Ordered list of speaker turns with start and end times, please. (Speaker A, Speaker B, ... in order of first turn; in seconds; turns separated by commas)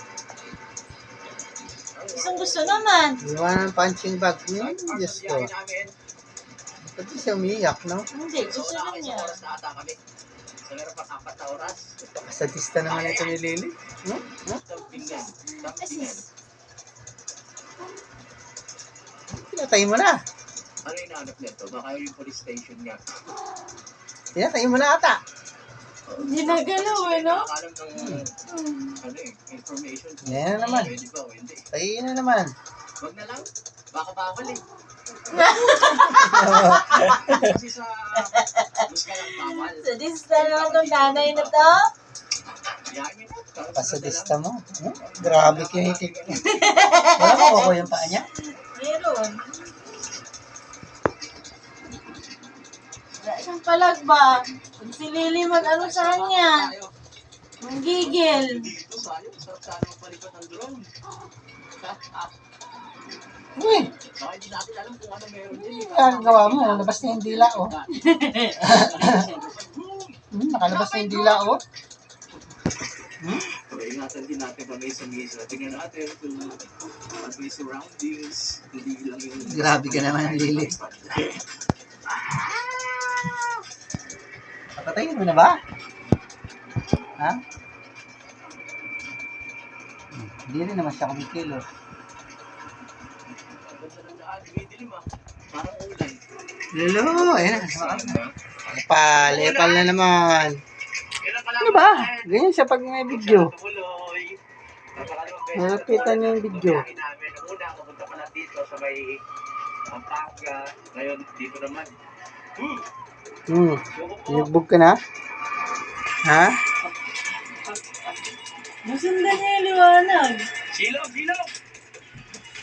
Speaker A: 1.9-2.8, Speaker B: 2.1-3.2, Speaker C: 3.2-5.5, Speaker A: 4.5-5.9, Speaker C: 6.8-8.1, Speaker B: 8.1-9.4, Speaker A: 8.4-10.0, Speaker A: 10.6-11.9, Speaker C: 12.0-14.6, Speaker A: 12.8-13.4, Speaker A: 14.4-16.2, Speaker B: 15.6-16.2, Speaker C: 19.3-20.2, Speaker A: 20.8-23.0, Speaker C: 24.3-25.2, Speaker A: 26.1-28.4, Speaker B: 26.2-27.5, Speaker C: 27.9-28.2, Speaker B: 28.5-29.0, Speaker A: 29.0-31.6, Speaker C: 30.2-30.9, Speaker C: 31.7-32.5, Speaker A: 33.0-34.6, Speaker B: 35.3-37.2, Speaker C: 36.2-37.4, Speaker A: 36.5-41.7, Speaker B: 38.4-38.8, Speaker B: 39.3-41.9, Speaker A: 42.9-44.4, Speaker C: 43.7-46.2, Speaker A: 45.0-47.1, Speaker B: 46.4-47.8, Speaker C: 47.1-48.3, Speaker B: 48.6-49.4, Speaker B: 53.2-56.7, Speaker A: 55.5-56.9, Speaker B: 57.6-58.7, Speaker A: 58.0-60.9, Speaker A: 61.8-62.3, Speaker C: 63.6-63.9, Speaker A: 64.0-70.2, Speaker C: 65.5-67.8, Speaker B: 68.0-68.7, Speaker C: 68.6-69.2, Speaker C: 70.3-71.6, Speaker B: 70.7-71.6, Speaker A: 73.3-81.4, Speaker C: 79.4-80.7, Speaker A: 82.1-83.6, Speaker C: 84.8-85.6, Speaker C: 90.1-91.6, Speaker A: 93.4-96.2, Speaker C: 96.7-100.6, Speaker A: 97.0-98.3, Speaker A: 99.1-99.9, Speaker A: 101.1-102.4, Speaker C: 101.6-103.5, Speaker A: 103.1-104.4, Speaker A: 104.9-109.2, Speaker C: 105.5-106.8, Speaker A: 109.8-111.9, Speaker A: 112.5-112.8, Speaker C: 113.5-115.0, Speaker A: 113.9-114.5, Speaker C: 116.2-116.6, Speaker A: 116.8-118.0, Speaker B: 118.8-120.5, Speaker A: 120.7-121.5